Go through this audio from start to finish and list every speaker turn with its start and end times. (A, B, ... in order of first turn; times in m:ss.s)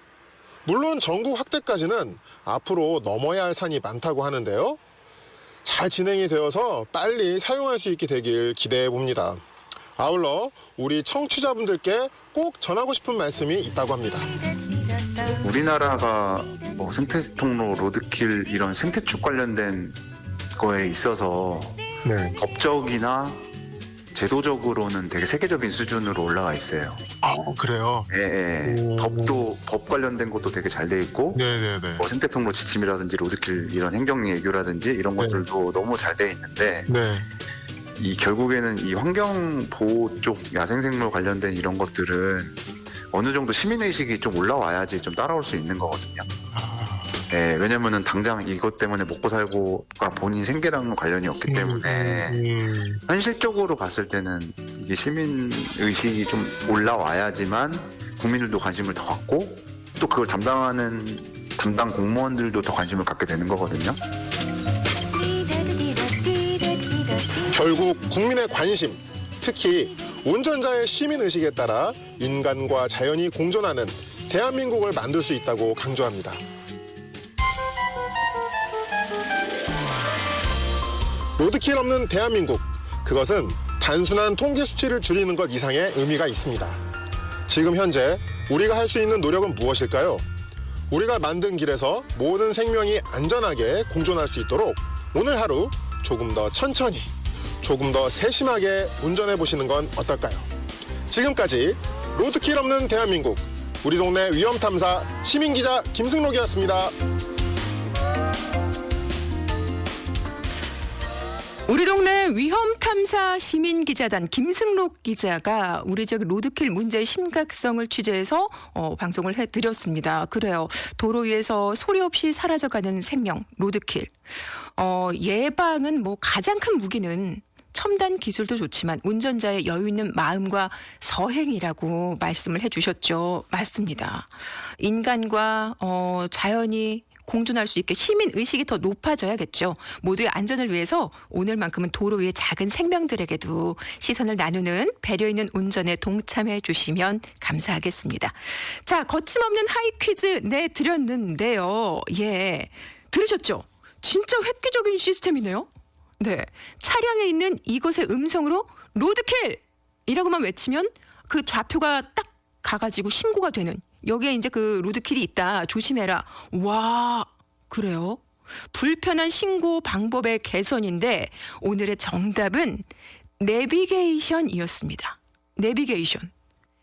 0:00.6-0:04.8 A
0:05.6-0:09.4 A
0:10.0-0:14.3 A
0:15.2-0:20.0 B
0:20.6-0:21.8 B
0:22.0-0:22.3 A
0:22.3-0:23.4 B
0:24.1-0:27.0 B
0:27.2-0:28.1 A
0:28.1-0:31.4 B
0:28.6-0:29.4 A
0:31.3-0:32.1 A
0:32.0-0:36.9 B
0:35.2-0:35.4 A
0:36.8-0:37.2 A
0:38.0-0:42.6 B
0:43.1-0:46.3 B
0:46.5-0:47.1 A
0:47.3-1:04.0 B
0:51.5-0:52.9 A
1:07.4-1:16.4 A
1:21.4-1:26.8 A
1:27.5-1:30.2 A
1:30.9-1:37.1 A
1:37.6-1:40.5 A
1:41.1-1:46.9 A
1:51.7-2:04.1 C
2:04.7-2:35.7 C
2:36.2-2:48.2 C
2:48.7-2:52.9 C
2:53.4-2:56.3 C